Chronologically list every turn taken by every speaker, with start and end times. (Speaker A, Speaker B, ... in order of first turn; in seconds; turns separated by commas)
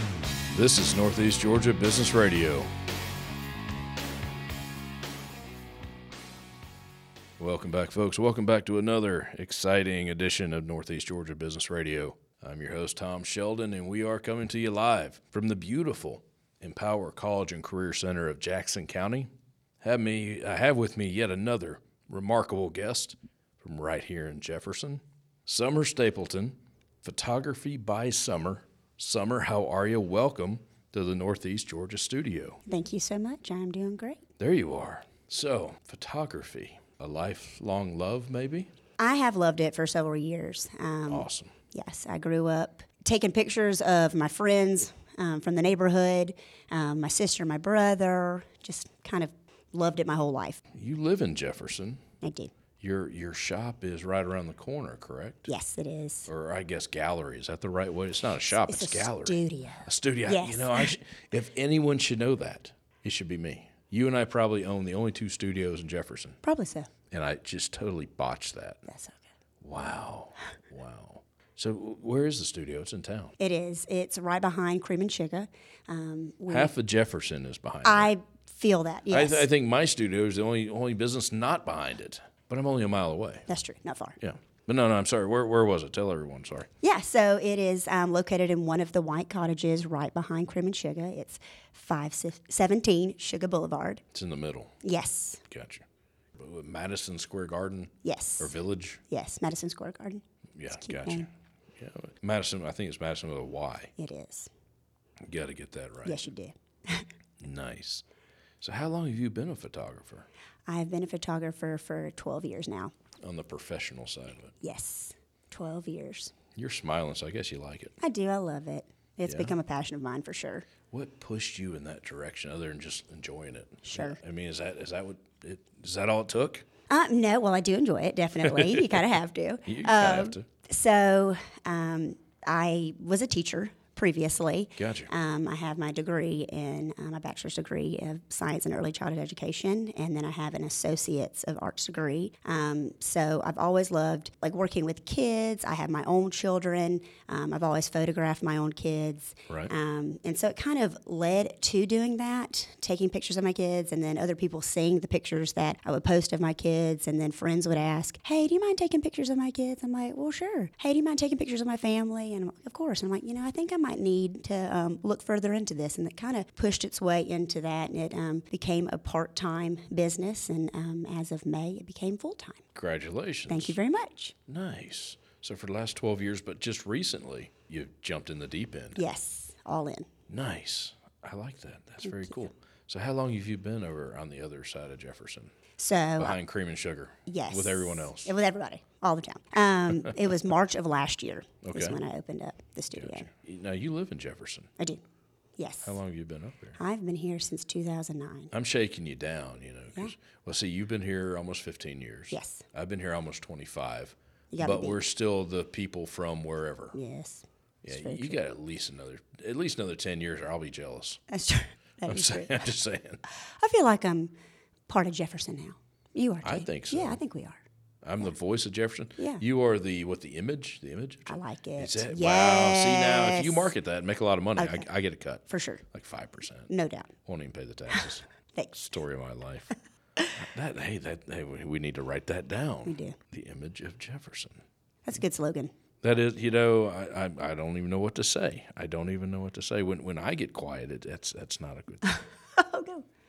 Speaker A: 0.5-2.7, Speaker A: 7.4-19.3, Speaker A: 19.8-32.6, Speaker B: 32.7-34.2, Speaker A: 34.4-38.7, Speaker B: 39.0-50.6, Speaker A: 41.1-41.5, Speaker A: 50.7-52.0, Speaker B: 52.2-52.5, Speaker A: 52.8-55.5, Speaker B: 55.5-56.3, Speaker A: 56.3-66.4, Speaker B: 58.7-61.0, Speaker B: 66.4-66.9, Speaker A: 67.1-68.8, Speaker B: 68.9-69.3, Speaker A: 69.6-73.3, Speaker B: 73.4-76.7, Speaker A: 76.5-78.1, Speaker B: 77.8-79.5, Speaker A: 79.1-83.5, Speaker B: 83.5-84.2, Speaker A: 84.2-86.7, Speaker B: 86.8-94.0, Speaker A: 94.1-94.8, Speaker B: 94.8-95.4, Speaker A: 95.5-95.8, Speaker A: 96.4-99.0, Speaker B: 98.0-98.5, Speaker B: 99.1-101.3, Speaker A: 100.6-103.9, Speaker B: 104.0-104.5, Speaker A: 105.2-106.2, Speaker B: 106.0-107.1, Speaker A: 107.4-108.0, Speaker A: 108.6-110.3, Speaker B: 110.7-112.9, Speaker A: 113.2-114.5, Speaker B: 114.6-116.3, Speaker A: 116.5-117.9, Speaker B: 118.0-120.7, Speaker A: 119.3-119.5, Speaker A: 120.9-126.7, Speaker B: 123.8-124.2, Speaker B: 126.9-172.6, Speaker A: 128.4-129.0, Speaker A: 129.7-130.4, Speaker A: 134.8-135.1, Speaker A: 172.8-173.8, Speaker B: 173.5-174.3, Speaker A: 174.5-179.0, Speaker B: 179.0-180.1, Speaker A: 180.3-185.5, Speaker B: 182.0-182.5, Speaker B: 185.8-186.4, Speaker A: 186.2-188.4, Speaker B: 187.3-193.3, Speaker A: 191.6-192.0, Speaker A: 192.9-194.7, Speaker B: 195.6-196.0, Speaker A: 195.8-196.8, Speaker B: 196.8-198.5, Speaker A: 198.5-207.0, Speaker B: 202.3-202.7, Speaker B: 204.5-205.1, Speaker B: 206.9-208.4, Speaker A: 207.8-211.2, Speaker B: 211.3-212.7, Speaker A: 212.1-213.2, Speaker B: 213.3-214.3, Speaker B: 214.9-217.6, Speaker A: 216.4-217.2, Speaker A: 218.0-226.7, Speaker B: 219.2-219.4, Speaker B: 221.3-223.7, Speaker B: 224.6-224.9, Speaker B: 225.5-225.9, Speaker B: 226.7-227.1, Speaker A: 227.2-228.3, Speaker B: 227.9-228.9, Speaker A: 228.8-229.7, Speaker A: 230.4-234.6, Speaker B: 232.8-233.2, Speaker B: 235.1-235.7, Speaker A: 236.0-242.2, Speaker B: 242.0-243.1